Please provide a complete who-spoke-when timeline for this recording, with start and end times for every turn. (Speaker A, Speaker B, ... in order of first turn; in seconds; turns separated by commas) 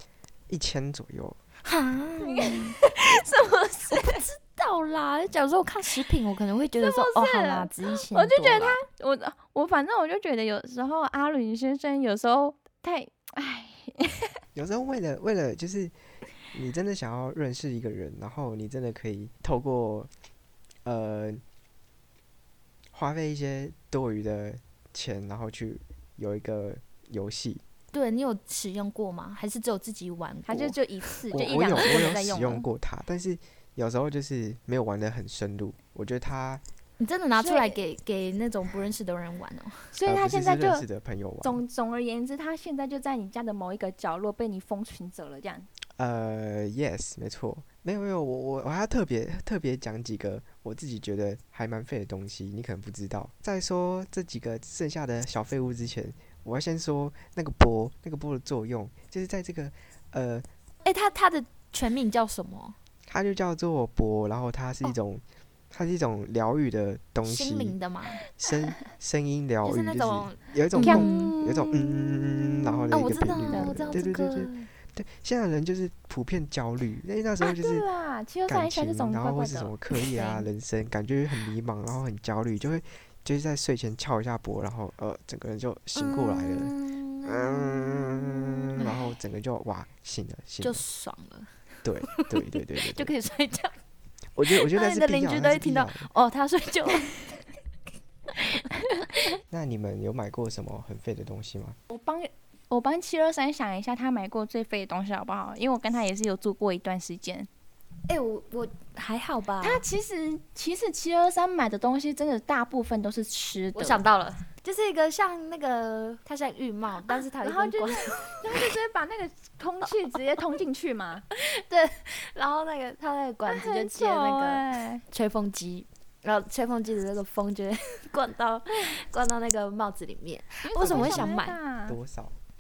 Speaker A: 0.5-1.4, Speaker B: 1.6-2.8, Speaker C: 2.2-4.3, Speaker B: 3.9-8.8, Speaker C: 6.8-14.3, Speaker A: 14.6-15.9, Speaker A: 16.5-20.1, Speaker A: 20.9-21.4, Speaker A: 22.9-27.6, Speaker B: 27.9-31.1, Speaker C: 30.5-32.7, Speaker A: 31.3-36.6, Speaker B: 37.0-40.0, Speaker C: 37.4-37.8, Speaker C: 39.9-40.9, Speaker A: 40.0-41.6, Speaker C: 41.4-45.7, Speaker A: 46.0-60.5, Speaker B: 60.9-62.8, Speaker A: 63.1-67.8, Speaker B: 67.2-68.3, Speaker A: 68.4-77.8, Speaker B: 69.6-71.4, Speaker C: 70.8-71.5, Speaker B: 72.9-74.7, Speaker C: 73.5-74.0, Speaker C: 77.4-80.4, Speaker A: 78.5-86.7, Speaker B: 86.0-89.2, Speaker A: 87.2-90.8, Speaker B: 90.6-91.5, Speaker A: 91.8-93.1, Speaker B: 92.1-93.8, Speaker A: 94.4-96.1, Speaker B: 94.5-97.6, Speaker B: 98.3-99.2, Speaker A: 99.5-101.8, Speaker C: 101.9-107.5, Speaker B: 108.1-109.8, Speaker C: 109.6-114.0, Speaker B: 113.8-118.7, Speaker C: 117.2-121.3, Speaker B: 119.8-120.2, Speaker B: 121.3-131.6, Speaker C: 123.5-125.0, Speaker C: 130.6-132.0, Speaker A: 130.8-132.4